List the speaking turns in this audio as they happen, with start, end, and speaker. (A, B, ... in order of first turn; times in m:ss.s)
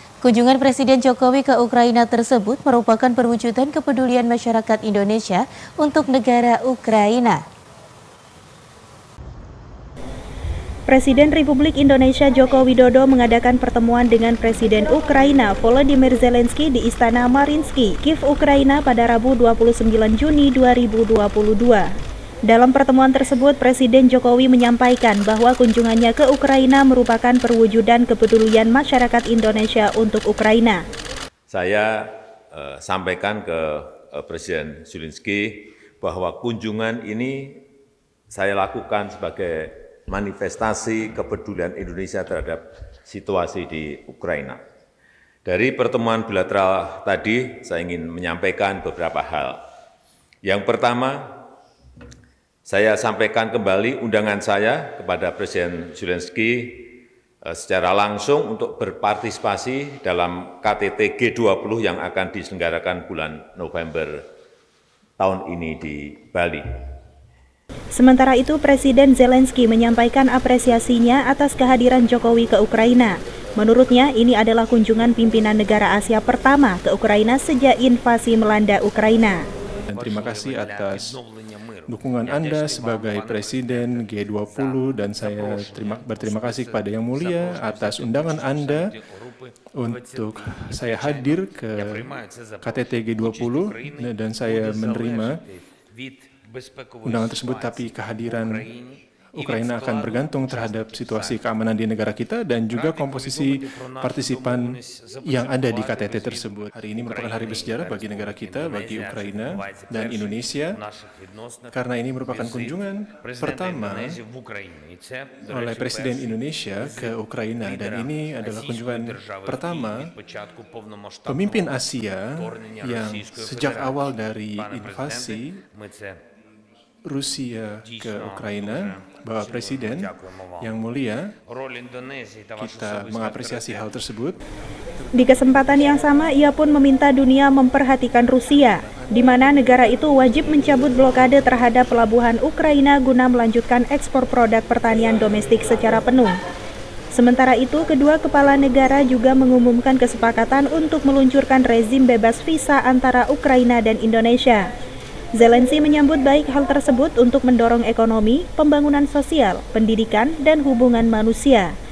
0:00.2-0:07.4 A
0:10.9-0:21.9 B
0:22.5-0:30.8 B
0:31.5-0:37.6 C
0:38.3-0:44.6 C
0:45.4-0:49.6 C
0:50.4-0:51.4 C
0:52.6-1:04.2 C
1:05.2-1:06.7 C
1:07.9-1:19.4 B
1:19.9-1:21.2 D
1:21.9-1:29.0 D
1:29.7-1:35.4 D
1:37.0-1:38.7 D
1:39.3-1:50.8 D
1:51.7-1:54.2 D
1:55.4-2:00.1 D
2:01.2-2:05.6 D
2:07.0-2:11.3 D
2:12.6-2:14.4 D
2:15.0-2:16.0 D
2:15.2-2:26.3 B
2:18.7-2:20.1 D
2:27.1-2:34.6 B
2:35.4-2:41.7 B